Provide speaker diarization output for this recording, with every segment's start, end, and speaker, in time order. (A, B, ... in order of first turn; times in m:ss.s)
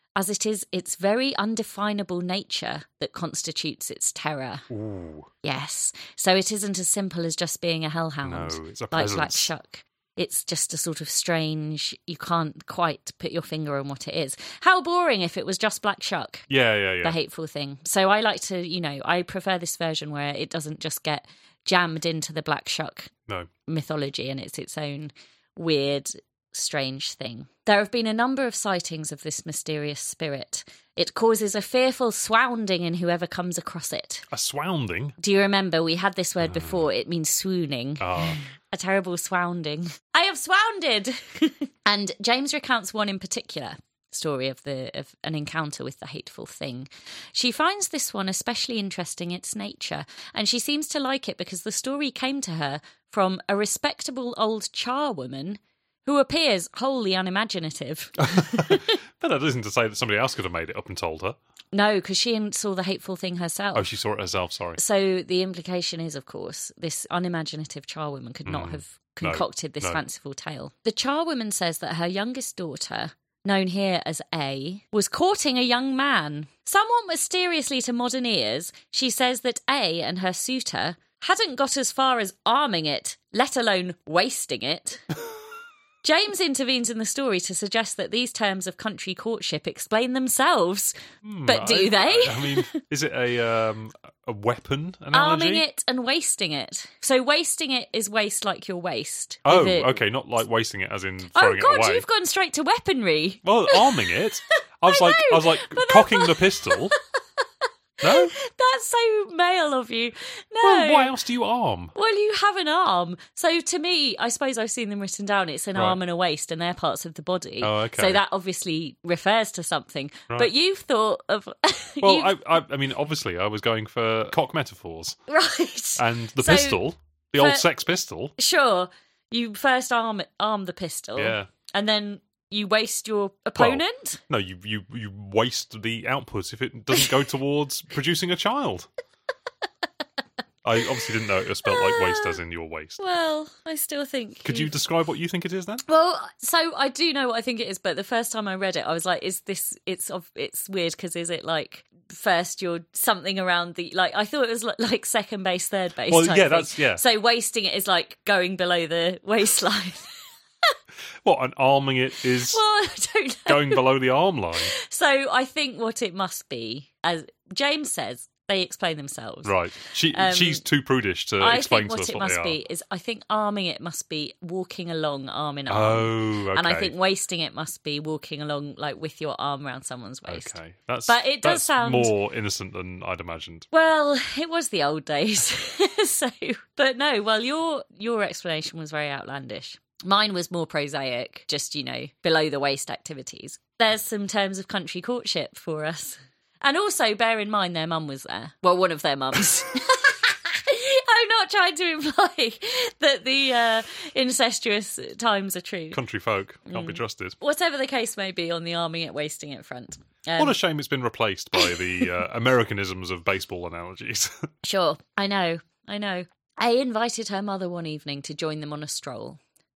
0:00.2-0:04.7 A
0:04.7-0:05.3 B
0:05.4-0:16.5 A
0:08.2-0:09.5 B
0:16.5-0:17.2 B
0:17.0-0:23.1 A
0:23.7-0:34.3 A
0:34.3-0:35.1 B
0:35.2-0:58.9 A
0:36.4-0:36.9 B
0:38.0-0:38.4 B
0:58.2-1:01.4 B
1:01.7-1:03.9 A
1:03.7-1:04.8 B
1:04.8-1:25.0 A
1:08.4-1:10.0 B
1:26.0-1:32.8 A
1:31.2-1:35.6 B
1:35.1-1:40.0 A
1:39.4-1:42.0 B
1:41.3-1:44.2 A
1:43.4-1:47.0 B
1:44.8-1:47.2 A
1:48.0-1:51.1 A
1:48.0-1:48.3 B
1:50.6-1:51.9 B
1:51.9-2:02.3 A
1:57.6-1:58.2 B
2:02.0-2:05.2 B
2:05.3-2:06.8 A
2:06.0-2:08.3 B
2:07.4-2:07.6 A
2:08.4-2:14.2 A
2:11.2-2:11.5 B
2:13.6-2:18.9 B
2:20.6-2:23.0 B
2:21.6-2:22.4 A
2:23.0-2:24.7 A
2:24.4-2:25.8 B
2:25.8-2:40.2 A
2:36.1-2:37.0 B
2:41.2-2:42.6 B
2:42.4-2:43.9 A
2:43.5-2:44.7 B
2:44.6-2:50.6 A
2:49.4-2:52.6 B
2:51.4-3:02.1 A
2:55.7-2:56.9 B
3:00.3-3:03.7 B
3:03.7-3:26.0 A
3:25.9-3:27.4 B
3:26.7-3:30.6 A
3:30.4-3:34.5 B
3:34.6-3:39.4 A